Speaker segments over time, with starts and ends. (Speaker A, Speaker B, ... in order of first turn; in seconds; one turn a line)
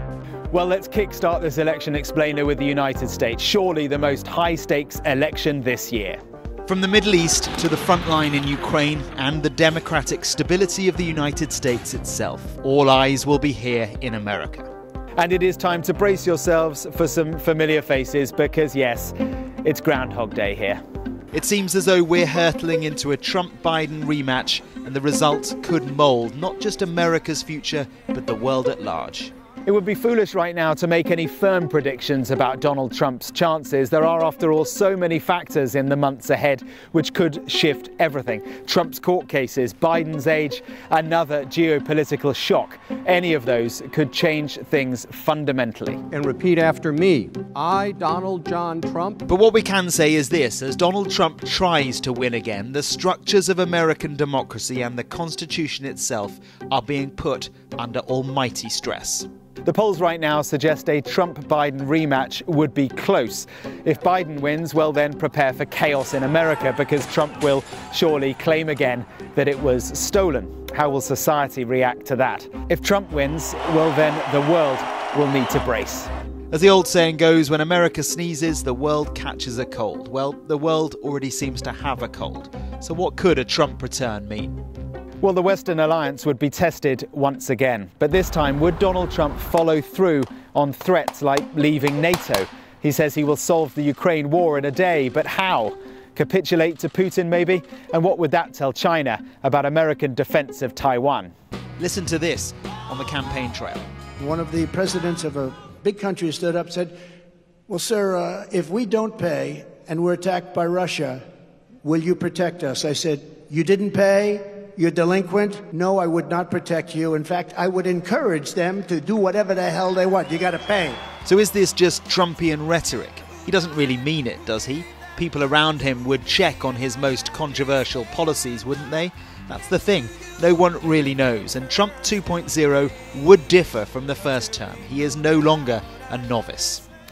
Speaker A: 0.5-6.2
Speaker B: 6.7-14.7
Speaker A: 15.2-20.8
Speaker B: 21.3-29.3
Speaker A: 29.6-46.0
Speaker C: 46.1-49.2
Speaker B: 49.3-59.3
Speaker A: 59.6-76.1
Speaker B: 76.5-84.5
Speaker A: 85.2-101.3
Speaker B: 101.8-103.8
Speaker D: 104.2-107.0
Speaker D: 107.7-111.2
Speaker D: 111.8-121.0
Speaker B: 121.2-136.8